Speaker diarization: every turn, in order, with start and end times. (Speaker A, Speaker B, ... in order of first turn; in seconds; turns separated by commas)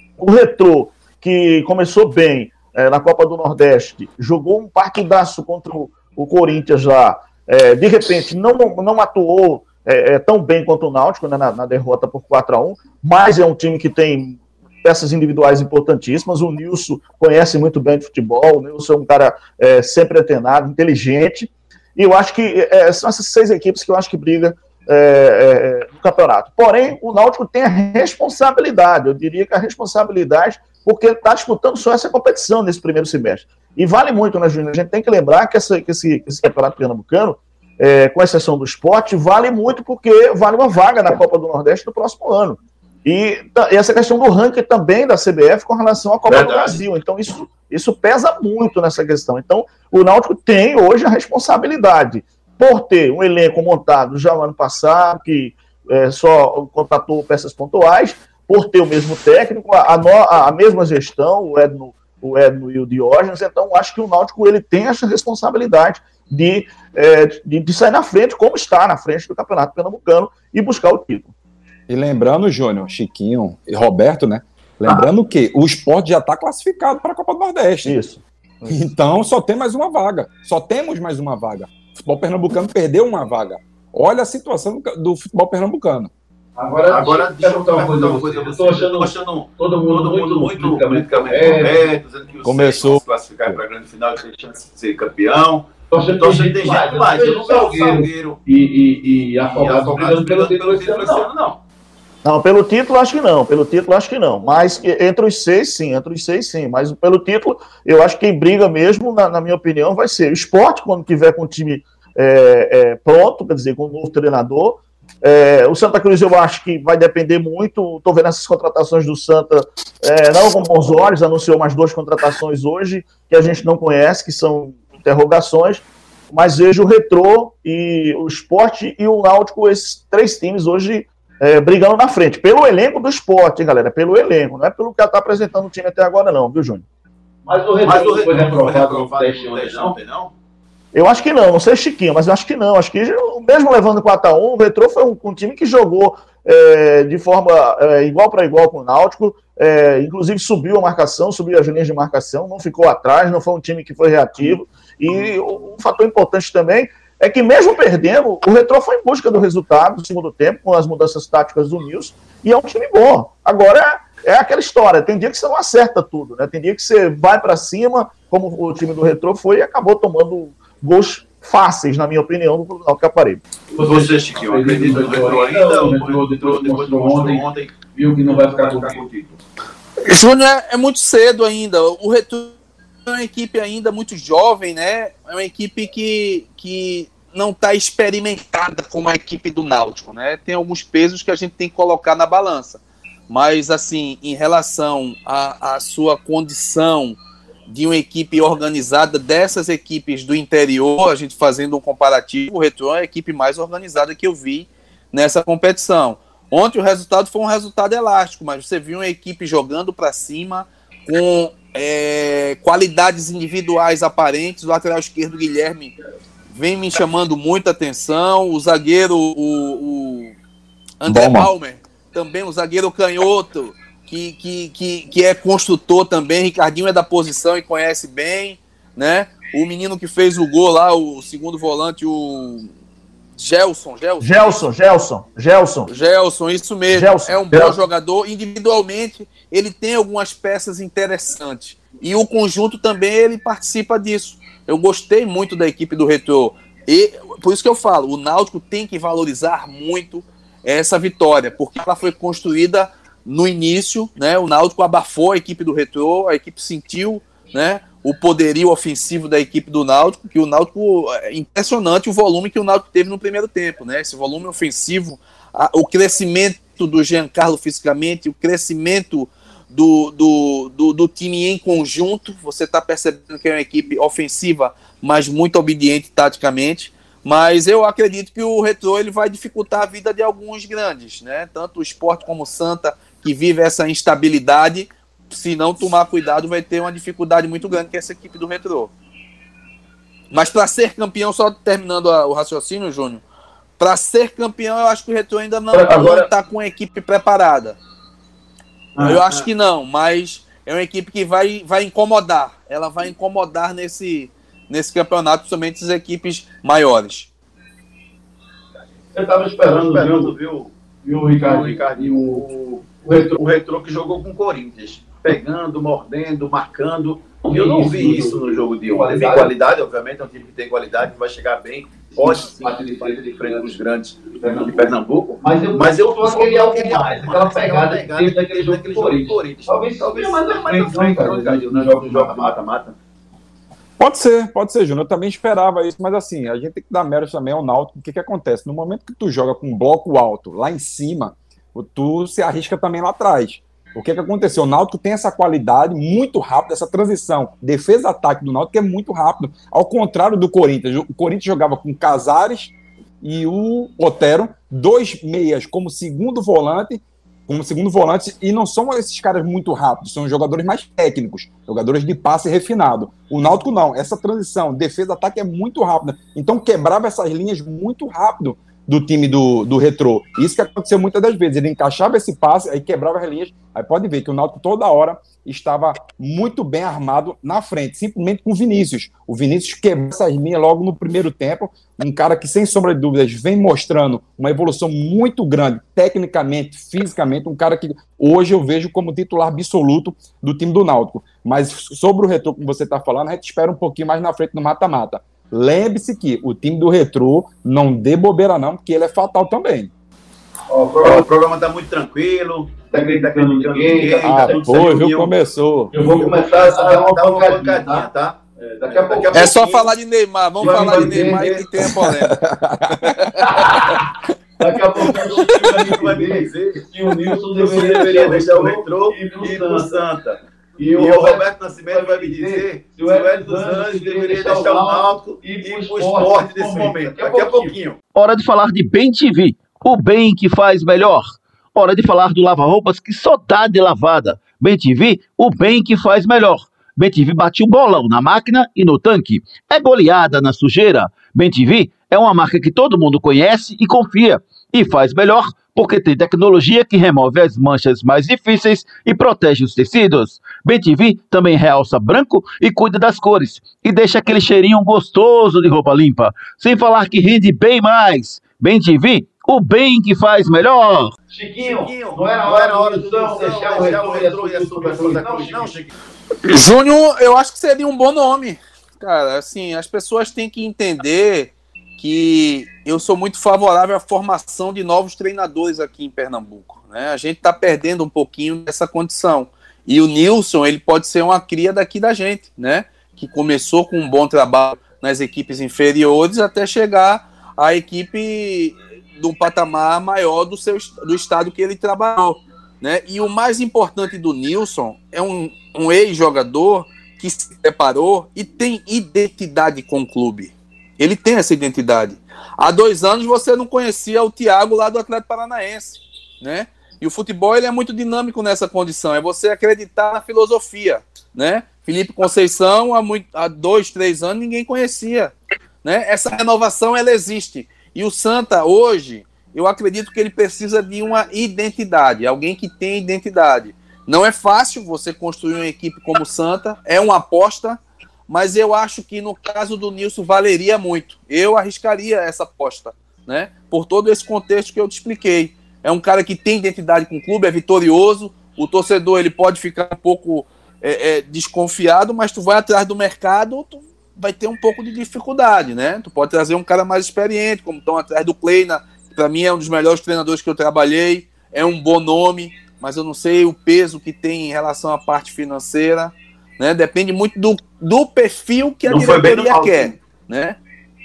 Speaker A: 0.2-71.3, Speaker B: 46.3-46.8, Speaker C: 71.9-78.0, Speaker A: 77.8-78.8, Speaker C: 78.7-86.1, Speaker D: 86.6-91.8, Speaker B: 86.9-98.4, Speaker C: 92.4-93.6, Speaker D: 95.9-101.3, Speaker B: 99.4-101.6, Speaker A: 102.2-136.8, Speaker D: 137.4-139.9, Speaker B: 137.8-140.3, Speaker A: 140.9-173.4, Speaker D: 173.7-179.0, Speaker B: 173.8-179.4, Speaker E: 180.0-215.9, Speaker E: 216.5-220.3, Speaker E: 221.0-232.7, Speaker C: 221.1-221.5, Speaker E: 233.4-234.6, Speaker A: 234.2-235.9, Speaker E: 235.9-288.9, Speaker A: 236.9-237.8, Speaker E: 290.3-293.2, Speaker E: 293.8-297.8, Speaker D: 295.7-296.2, Speaker D: 298.9-299.2, Speaker E: 299.0-307.3, Speaker D: 309.1-310.3, Speaker B: 309.6-310.7, Speaker D: 311.0-312.4, Speaker B: 311.4-332.9, Speaker D: 313.0-313.3, Speaker D: 317.4-319.5, Speaker D: 322.1-323.7, Speaker D: 324.3-332.6, Speaker C: 334.0-399.9, Speaker D: 400.7-401.3, Speaker B: 401.0-405.3, Speaker D: 402.9-404.8, Speaker C: 404.2-405.9, Speaker D: 405.9-409.5, Speaker B: 406.0-409.9, Speaker E: 409.3-413.4, Speaker D: 410.6-411.6, Speaker B: 410.6-411.6, Speaker C: 411.8-413.9, Speaker D: 413.4-414.0, Speaker D: 414.6-419.9, Speaker B: 415.1-416.9, Speaker B: 417.5-420.4, Speaker D: 420.8-465.7, Speaker B: 420.9-428.0, Speaker B: 461.6-465.9, Speaker E: 466.4-515.3, Speaker E: 515.8-560.6, Speaker B: 558.9-559.9